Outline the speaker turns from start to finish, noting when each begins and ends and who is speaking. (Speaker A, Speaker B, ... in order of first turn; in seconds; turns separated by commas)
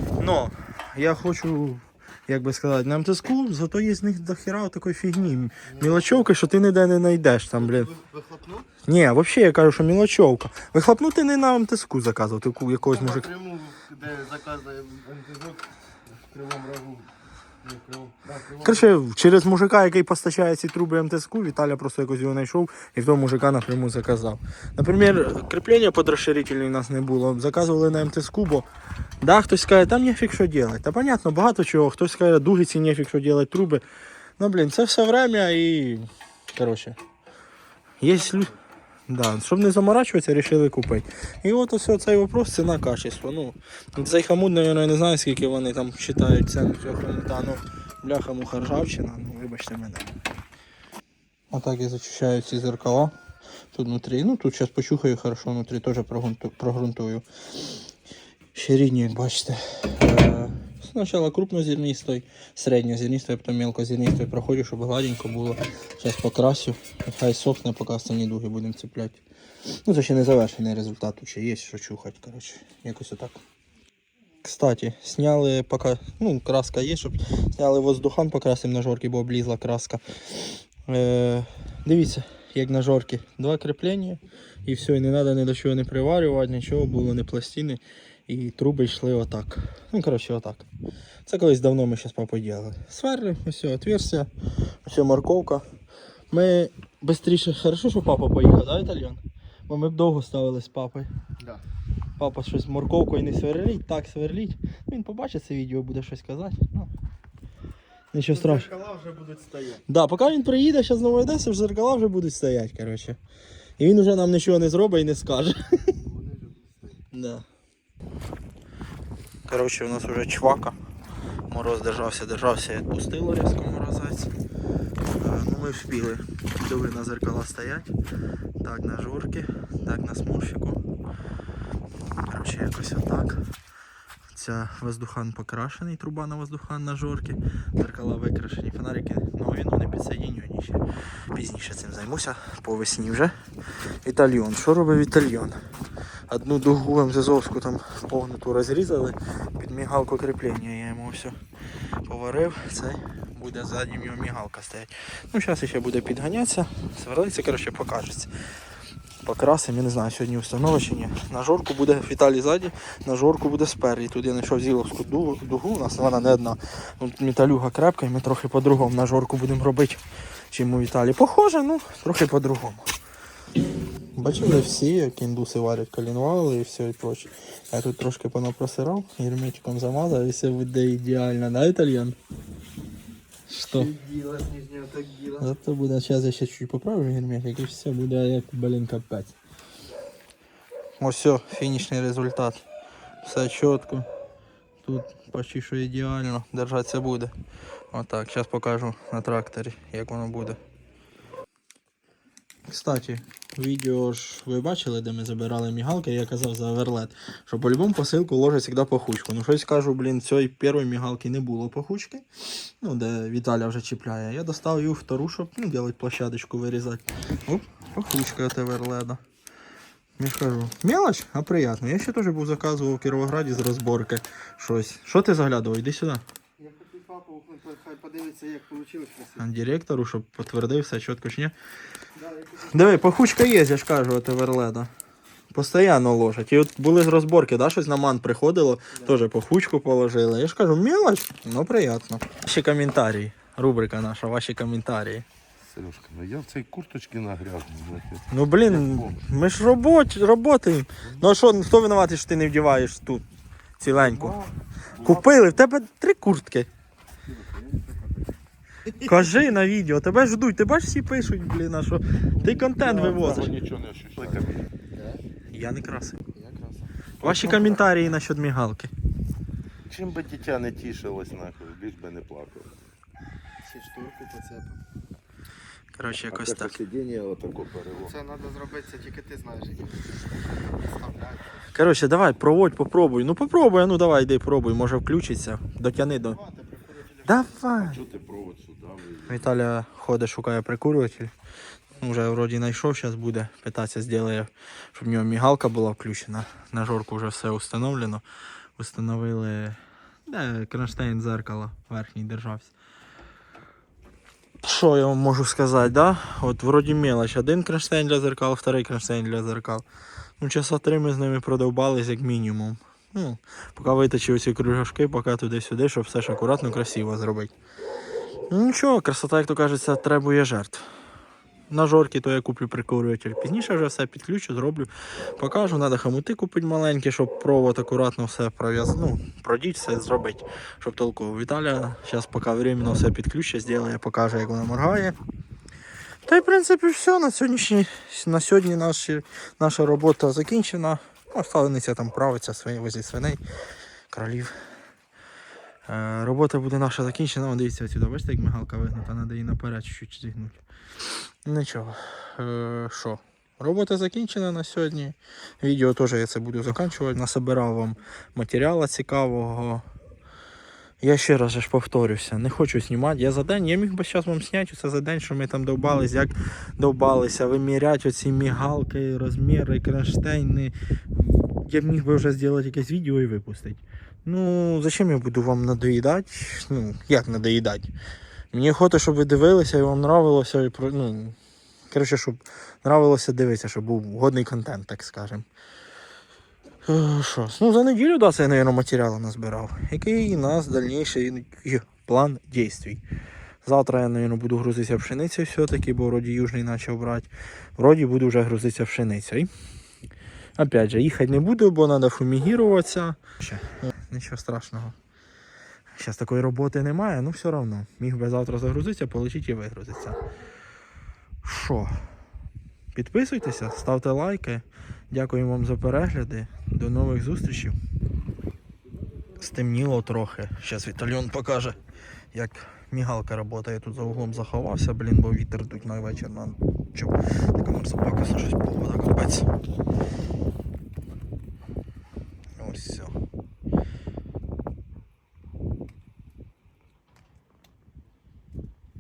Speaker A: 0.2-7.9, Speaker B: 5.7-6.3, Speaker B: 7.6-8.7, Speaker A: 8.8-13.3, Speaker B: 12.8-17.1, Speaker B: 17.6-18.9, Speaker A: 18.6-28.7, Speaker A: 29.2-33.8, Speaker A: 34.4-37.0, Speaker A: 38.0-38.5, Speaker B: 38.1-38.6, Speaker A: 39.1-50.1, Speaker A: 51.5-53.1, Speaker A: 53.7-57.2, Speaker A: 58.5-69.2, Speaker A: 69.8-73.4, Speaker A: 74.4-90.7, Speaker A: 91.3-94.3, Speaker A: 94.8-95.6, Speaker A: 96.3-101.1, Speaker A: 102.2-106.9, Speaker A: 108.1-108.7, Speaker B: 108.3-109.8, Speaker A: 109.9-113.2, Speaker A: 113.8-115.9, Speaker B: 116.0-117.0, Speaker A: 117.1-117.4, Speaker A: 119.5-120.8, Speaker A: 121.5-124.3, Speaker A: 125.2-127.9, Speaker A: 128.6-130.8, Speaker A: 132.3-133.4, Speaker A: 134.3-140.8, Speaker A: 141.3-143.3, Speaker A: 144.1-145.6, Speaker A: 146.3-151.4, Speaker A: 152.1-158.3, Speaker A: 159.2-172.8, Speaker A: 174.2-182.2, Speaker A: 183.5-183.9, Speaker B: 183.7-185.5, Speaker A: 185.4-189.3, Speaker A: 191.0-192.6, Speaker A: 193.2-194.1, Speaker A: 194.8-197.3, Speaker A: 197.9-200.6, Speaker A: 202.7-212.3, Speaker A: 212.8-219.2, Speaker A: 220.2-226.2, Speaker B: 226.6-229.5, Speaker A: 229.4-231.5, Speaker B: 232.2-233.0, Speaker A: 232.7-234.9, Speaker A: 235.5-245.3, Speaker B: 238.9-239.2, Speaker C: 245.7-249.2, Speaker A: 248.3-253.2, Speaker A: 253.8-254.4, Speaker C: 255.0-255.3, Speaker A: 255.0-256.7, Speaker A: 259.0-263.5, Speaker B: 262.4-262.9, Speaker C: 262.8-264.7, Speaker B: 264.9-265.2, Speaker A: 265.5-266.2, Speaker B: 266.3-266.9, Speaker C: 267.2-267.8, Speaker A: 267.2-268.9, Speaker C: 269.9-272.7, Speaker B: 273.6-274.8, Speaker A: 276.0-276.8, Speaker C: 276.3-278.1, Speaker B: 278.0-280.2, Speaker B: 280.7-281.7, Speaker A: 281.7-286.4, Speaker B: 286.2-287.5, Speaker A: 287.2-288.0, Speaker C: 287.8-289.4, Speaker A: 289.3-291.3, Speaker A: 292.0-298.2, Speaker A: 298.8-302.7, Speaker A: 304.6-309.9, Speaker A: 310.4-317.5, Speaker A: 318.5-320.9, Speaker A: 321.7-335.1, Speaker A: 336.3-343.4, Speaker A: 344.1-344.6, Speaker A: 345.9-350.6, Speaker A: 351.4-359.9, Speaker A: 361.0-377.9, Speaker A: 378.5-381.4, Speaker A: 381.9-385.4, Speaker A: 386.9-393.0, Speaker A: 393.6-399.5, Speaker A: 400.6-405.0, Speaker A: 406.0-410.2, Speaker A: 411.4-412.0, Speaker A: 412.9-417.8, Speaker A: 419.4-421.8, Speaker A: 422.3-429.5, Speaker A: 432.6-433.1